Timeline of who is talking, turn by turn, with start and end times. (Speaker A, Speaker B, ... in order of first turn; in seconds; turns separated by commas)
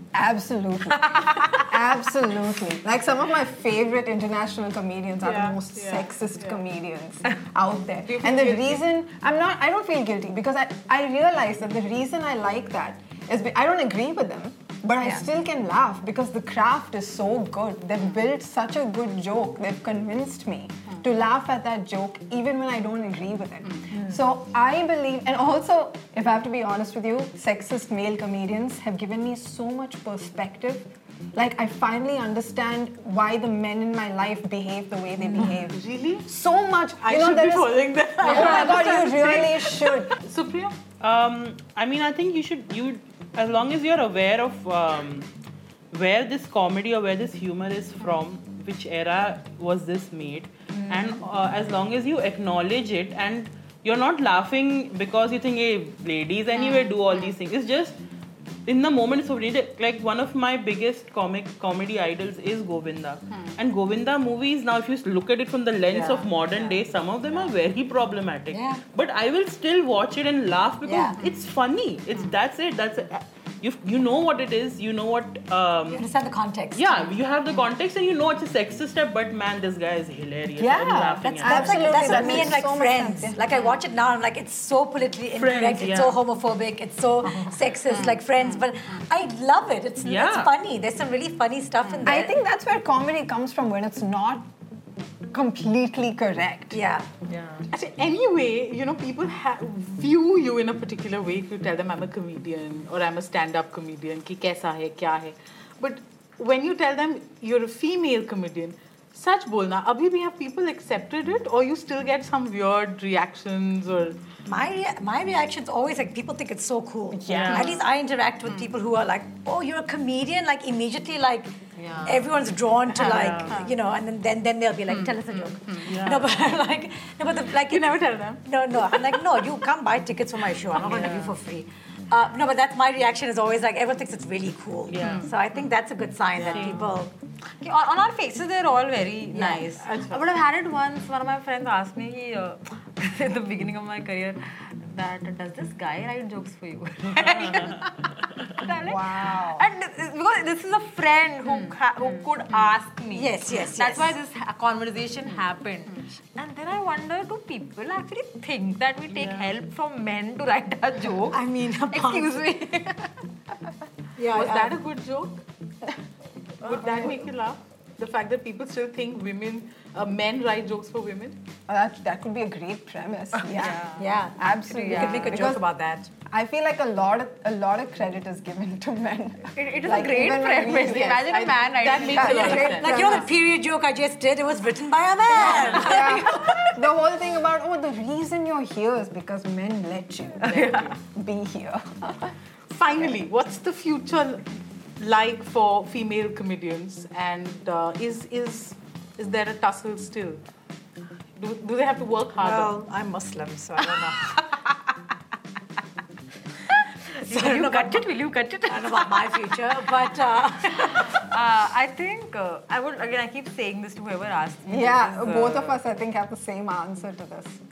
Speaker A: 0.1-1.1, Speaker B: 1.1-1.6, Speaker A: 1.6-40.1, Speaker C: 5.2-6.7, Speaker C: 8.0-8.8, Speaker C: 20.9-21.2, Speaker C: 23.6-23.9, Speaker C: 35.4-36.3, Speaker C: 37.0-40.8, Speaker D: 38.2-39.0, Speaker E: 41.0-45.3, Speaker E: 45.9-58.0, Speaker E: 58.6-76.0, Speaker C: 63.3-63.6, Speaker C: 65.9-66.8, Speaker D: 68.5-68.8, Speaker D: 70.8-71.2, Speaker D: 75.9-77.2, Speaker E: 76.7-82.4, Speaker A: 80.6-83.4, Speaker D: 81.2-92.4, Speaker E: 85.3-86.2, Speaker C: 87.8-89.0, Speaker E: 90.0-90.5, Speaker A: 92.0-94.5, Speaker A: 95.3-96.8, Speaker D: 96.7-97.1, Speaker B: 97.3-97.6, Speaker C: 97.7-114.2, Speaker D: 114.5-137.1, Speaker A: 117.1-117.5, Speaker E: 117.3-117.7, Speaker C: 117.5-117.8, Speaker C: 118.5-118.7, Speaker B: 121.7-122.3, Speaker C: 122.9-123.8, Speaker E: 123.0-123.6, Speaker C: 124.9-126.0, Speaker E: 125.9-126.3, Speaker C: 127.5-129.2, Speaker C: 130.8-131.2, Speaker B: 130.8-131.3, Speaker E: 130.9-131.2, Speaker E: 134.9-135.3, Speaker C: 134.9-135.3, Speaker C: 136.4-136.8, Speaker E: 136.5-136.9, Speaker B: 136.5-136.8, Speaker B: 137.6-163.2, Speaker D: 139.3-139.6, Speaker C: 139.7-140.3, Speaker A: 148.8-149.6, Speaker C: 151.4-151.7, Speaker D: 153.1-154.1, Speaker E: 159.1-159.5, Speaker D: 161.3-162.4, Speaker D: 164.2-164.7, Speaker C: 164.3-165.4, Speaker B: 166.6-167.1, Speaker C: 166.6-171.4, Speaker A: 166.8-167.1, Speaker A: 171.7-173.8, Speaker B: 173.4-175.3, Speaker D: 173.8-176.1, Speaker A: 174.4-175.6, Speaker A: 176.2-181.1, Speaker B: 179.5-182.9, Speaker C: 180.8-183.3, Speaker A: 182.1-183.1, Speaker D: 182.6-186.7, Speaker C: 185.3-186.1, Speaker A: 185.8-192.3, Speaker C: 190.4-191.0, Speaker B: 190.5-190.9, Speaker C: 192.7-194.4, Speaker C: 195.0-200.4, Speaker C: 201.4-202.8, Speaker D: 202.4-204.3, Speaker B: 206.8-209.6, Speaker D: 207.2-208.1, Speaker D: 208.7-211.1, Speaker B: 210.7-215.8, Speaker A: 214.7-217.6